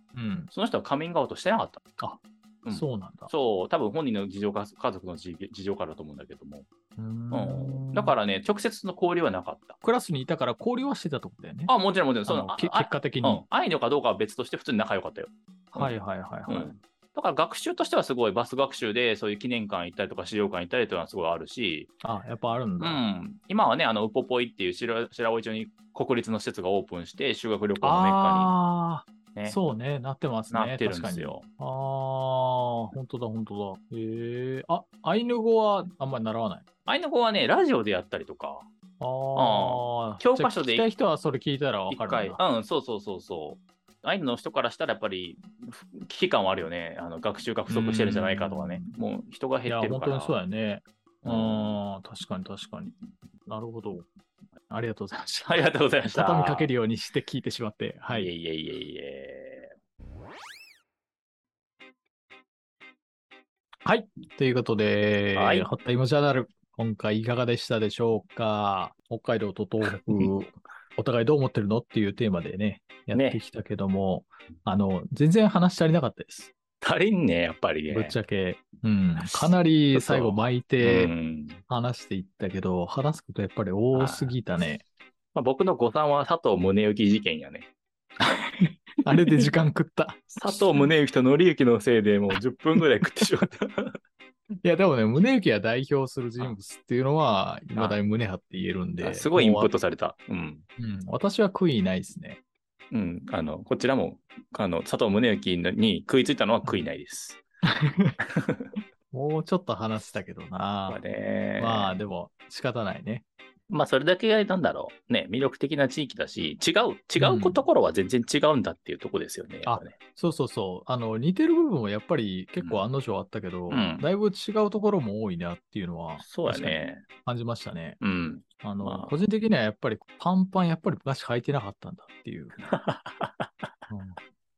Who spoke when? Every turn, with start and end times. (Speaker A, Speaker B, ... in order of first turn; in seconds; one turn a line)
Speaker A: 0.1-0.5
Speaker B: 0.5-1.8
Speaker A: 2.0-3.3
Speaker B: 2.6-6.7
Speaker A: 7.0-8.2
Speaker B: 7.3-9.8
Speaker A: 9.8-11.7
Speaker B: 11.7-15.9
Speaker A: 12.2-13.4
Speaker A: 15.8-16.8
Speaker B: 16.5-21.9
Speaker A: 22.0-23.0
Speaker B: 22.8-28.6
Speaker A: 27.8-36.7
Speaker B: 30.5-31.5
Speaker B: 36.9-38.7
Speaker A: 39.0-42.4
Speaker B: 39.4-40.9
Speaker B: 41.9-50.4
Speaker A: 47.7-48.9
Speaker A: 49.7-52.9
Speaker B: 51.2-51.8
Speaker A: 53.5-54.1
Speaker A: 54.7-58.3
Speaker B: 55.5-56.7
Speaker B: 58.1-59.7
Speaker A: 63.9-76.5
Speaker B: 65.3-65.7
Speaker B: 70.0-70.3
Speaker B: 73.1-73.4
Speaker B: 76.8-78.2
Speaker A: 77.9-81.1
Speaker B: 79.2-81.6
Speaker A: 81.7-84.8
Speaker B: 83.9-84.4
Speaker B: 85.3-87.7
Speaker A: 88.2-90.8
Speaker B: 90.3-94.0
Speaker A: 94.6-99.7
Speaker B: 99.0-100.7
Speaker A: 100.8-102.4
Speaker B: 102.9-107.4
Speaker A: 106.7-106.9
Speaker A: 107.7-108.2
Speaker B: 108.3-108.7
Speaker A: 109.1-111.0
Speaker B: 110.9-112.0
Speaker A: 111.6-113.2
Speaker B: 113.7-120.0
Speaker A: 117.2-117.7
Speaker A: 119.7-128.0
Speaker B: 122.6-122.8
Speaker B: 123.7-124.1
Speaker B: 126.2-127.0
Speaker B: 128.0-129.2
Speaker A: 128.6-132.7
Speaker B: 132.6-133.7
Speaker A: 133.9-134.2